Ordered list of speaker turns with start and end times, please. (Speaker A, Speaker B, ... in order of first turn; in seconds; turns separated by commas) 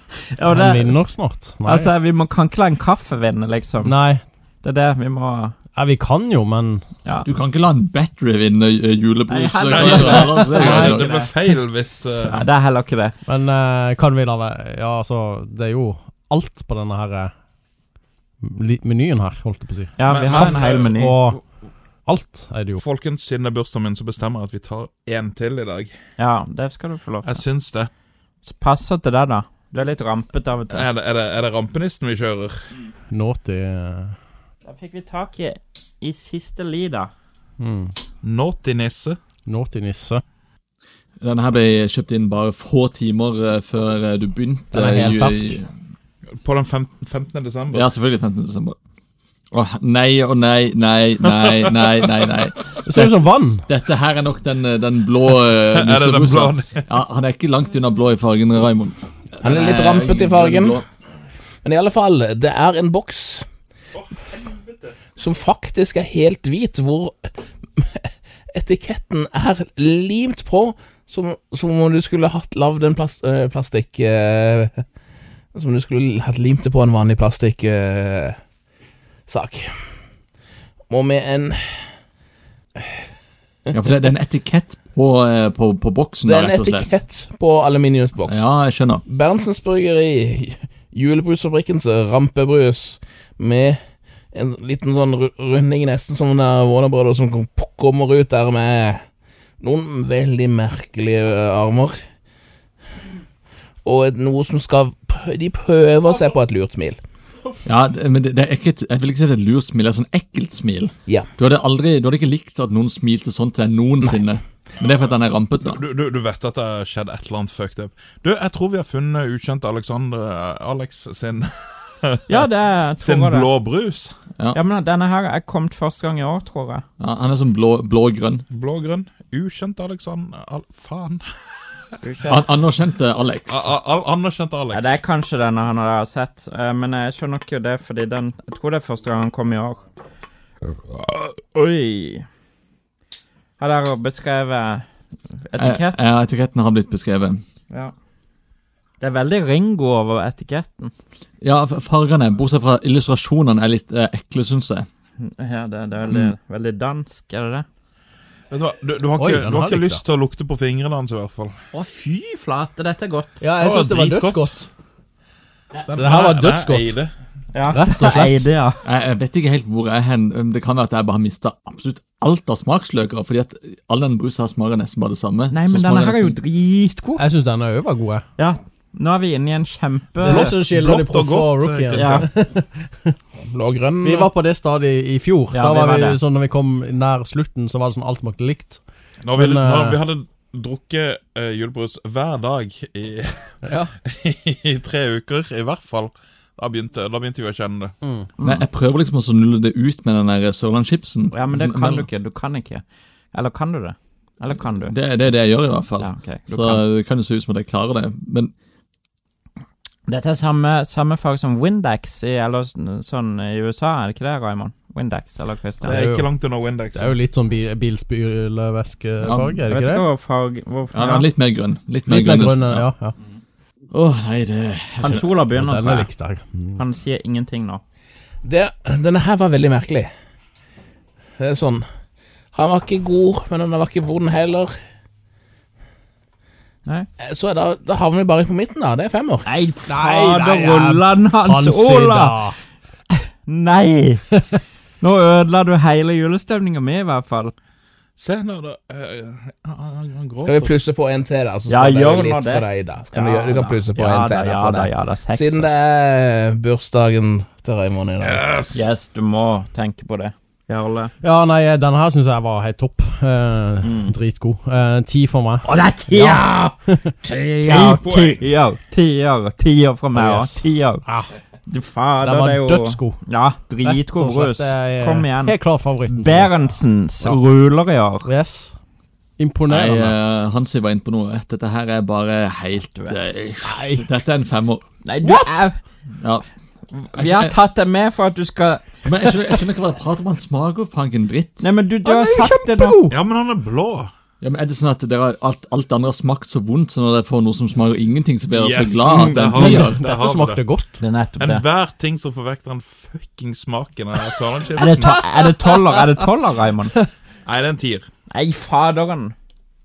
Speaker A: 0.3-1.0, Speaker B: 0.5-1.9, Speaker A: 1.6-5.5, Speaker B: 3.8-4.2, Speaker B: 5.8-6.8, Speaker C: 7.2-11.1, Speaker A: 9.3-11.3, Speaker D: 9.7-12.4, Speaker B: 10.6-11.1, Speaker A: 12.2-13.2, Speaker B: 13.3-17.3, Speaker B: 18.4-21.4, Speaker A: 20.0-21.2, Speaker D: 20.1-21.0, Speaker B: 22.1-22.8, Speaker D: 22.8-25.9, Speaker A: 26.2-27.4, Speaker D: 27.2-27.9, Speaker A: 28.4-30.9, Speaker D: 30.7-32.6, Speaker B: 33.1-34.1, Speaker A: 34.6-37.1, Speaker B: 37.6-37.9, Speaker D: 38.2-39.2, Speaker B: 39.5-40.2, Speaker C: 41.2-45.7, Speaker B: 44.7-45.6, Speaker D: 46.4-47.9, Speaker C: 47.7-48.8, Speaker C: 49.5-60.9, Speaker B: 52.9-53.6, Speaker D: 55.7-56.9, Speaker E: 59.4-60.8, Speaker E: 61.6-63.5, Speaker D: 64.0-64.9, Speaker E: 65.2-74.8, Speaker E: 75.5-78.4, Speaker E: 79.3-79.8, Speaker E: 80.9-81.9, Speaker C: 83.7-86.9, Speaker E: 86.2-88.4, Speaker C: 88.3-89.0, Speaker E: 89.1-93.8, Speaker E: 94.3-99.0, Speaker E: 99.6-102.0, Speaker E: 103.8-107.0, Speaker C: 107.7-115.8, Speaker D: 115.6-122.5, Speaker A: 122.3-123.5, Speaker D: 123.0-124.1, Speaker A: 124.5-126.8, Speaker C: 127.0-128.4, Speaker D: 128.5-131.3, Speaker A: 132.0-132.4, Speaker C: 132.3-133.7, Speaker D: 133.5-135.0, Speaker A: 134.7-139.8, Speaker A: 141.0-142.2, Speaker A: 143.6-144.9, Speaker A: 145.4-146.2, Speaker C: 145.6-147.4, Speaker A: 149.0-150.9, Speaker C: 151.4-154.9, Speaker A: 155.2-157.7, Speaker D: 158.5-161.5, Speaker B: 159.2-160.0, Speaker A: 161.7-163.4, Speaker B: 163.4-164.7, Speaker D: 163.6-164.6, Speaker D: 165.8-167.1, Speaker B: 165.9-167.0, Speaker A: 167.5-168.8, Speaker B: 167.7-168.5, Speaker C: 168.8-176.4, Speaker A: 175.5-177.2, Speaker B: 177.2-178.2, Speaker A: 178.4-180.6, Speaker B: 180.2-183.2, Speaker D: 180.2-182.3, Speaker A: 181.9-182.3, Speaker E: 183.4-184.3, Speaker B: 184.0-190.0, Speaker A: 185.5-186.2, Speaker D: 189.2-197.9, Speaker B: 193.6-193.9, Speaker B: 198.0-198.3, Speaker A: 198.4-198.7, Speaker C: 198.4-202.1, Speaker A: 201.3-204.9, Speaker C: 204.9-208.5, Speaker A: 206.0-206.9, Speaker A: 210.1-216.0, Speaker D: 215.8-217.2, Speaker B: 215.8-220.1, Speaker C: 219.2-219.6, Speaker A: 219.7-221.3, Speaker C: 220.9-222.9, Speaker B: 222.1-223.1, Speaker C: 223.9-225.3, Speaker A: 225.0-226.1, Speaker B: 225.5-226.8, Speaker A: 226.8-227.8, Speaker E: 228.4-230.1, Speaker E: 231.4-231.8, Speaker E: 232.5-234.7, Speaker E: 237.2-239.5, Speaker A: 239.5-242.5, Speaker B: 239.9-242.6, Speaker A: 243.4-244.3, Speaker A: 245.0-247.5, Speaker D: 248.2-250.7, Speaker E: 250.4-258.5, Speaker A: 251.7-255.7, Speaker D: 258.2-258.8, Speaker A: 258.7-261.1, Speaker B: 261.2-267.1, Speaker A: 263.8-264.1, Speaker A: 265.6-271.1, Speaker D: 267.6-268.5, Speaker B: 270.1-271.3, Speaker A: 271.7-278.3, Speaker B: 272.2-273.2, Speaker B: 273.8-276.6, Speaker B: 278.2-278.8, Speaker B: 279.4-280.2, Speaker C: 279.7-284.8, Speaker A: 282.9-283.4, Speaker B: 283.6-284.0, Speaker A: 285.0-285.8, Speaker B: 285.2-285.7, Speaker C: 286.2-286.5, Speaker A: 286.9-289.3, Speaker C: 287.1-287.6, Speaker C: 289.1-291.7, Speaker A: 291.6-293.1, Speaker B: 292.0-293.2, Speaker D: 293.1-294.1, Speaker C: 294.4-300.1, Speaker D: 298.5-300.7, Speaker B: 299.5-301.0, Speaker A: 301.0-301.6, Speaker D: 301.4-305.2, Speaker A: 304.8-306.9, Speaker B: 305.1-306.0, Speaker D: 307.4-308.1, Speaker A: 308.3-309.3